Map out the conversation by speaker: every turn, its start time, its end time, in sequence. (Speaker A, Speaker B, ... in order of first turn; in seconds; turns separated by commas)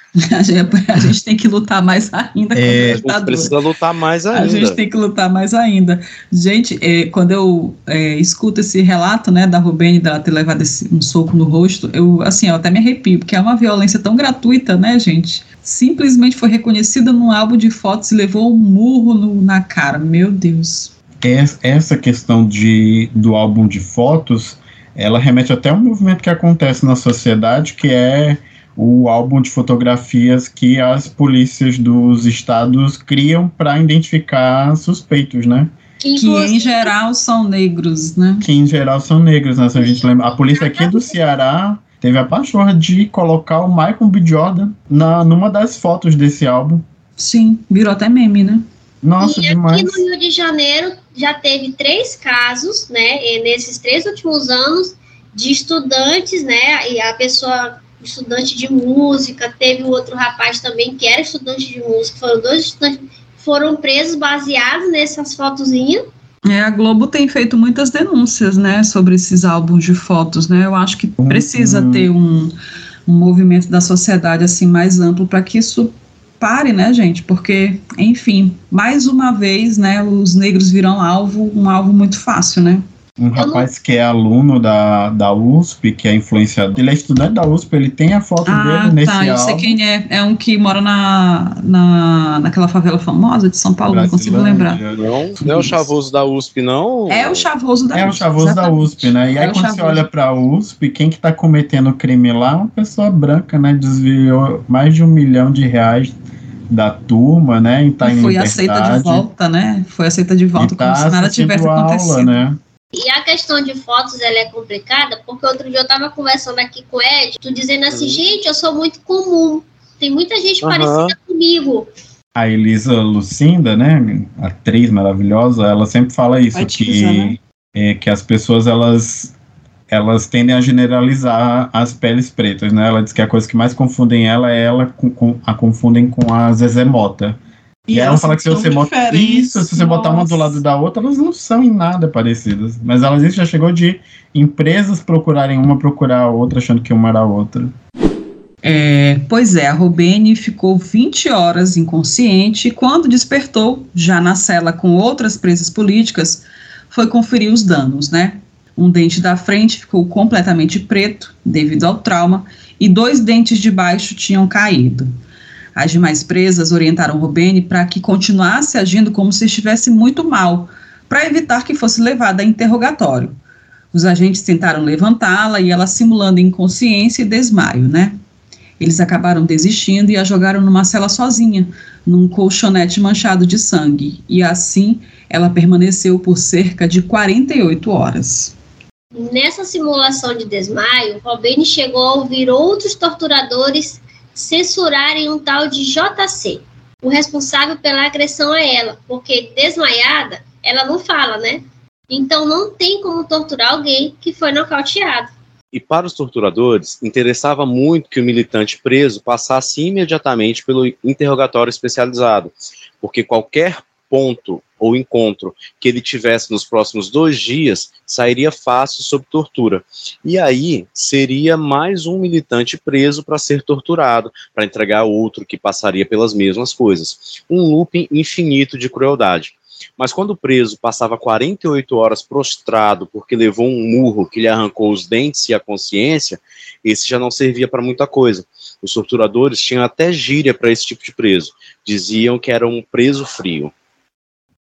Speaker A: 0.2-3.5, Speaker B: 2.5-3.0, Speaker C: 3.0-4.8, Speaker A: 4.3-20.9, Speaker B: 21.2-35.7, Speaker D: 36.0-36.9, Speaker A: 36.2-38.5, Speaker B: 38.4-46.8, Speaker D: 39.8-41.1, Speaker A: 47.2-48.6, Speaker B: 49.0-50.0, Speaker D: 49.2-66.0, Speaker A: 66.5-72.5, Speaker B: 71.2-72.1, Speaker A: 73.1-82.8, Speaker B: 83.2-89.8, Speaker D: 83.4-83.7, Speaker A: 88.5-94.8, Speaker B: 93.9-95.8, Speaker C: 95.0-97.5, Speaker A: 97.1-100.0, Speaker B: 97.9-106.1, Speaker B: 106.7-109.3, Speaker A: 108.0-112.4, Speaker B: 110.6-112.6, Speaker D: 112.9-121.9, Speaker C: 117.9-118.2, Speaker C: 120.6-121.1, Speaker B: 122.3-129.3, Speaker A: 126.5-127.4, Speaker B: 129.9-137.4, Speaker A: 137.9-140.6, Speaker B: 137.9-147.7, Speaker A: 148.6-165.1, Speaker A: 165.8-173.3, Speaker A: 173.9-178.2, Speaker A: 178.8-188.6, Speaker D: 189.1-205.3, Speaker C: 205.7-243.7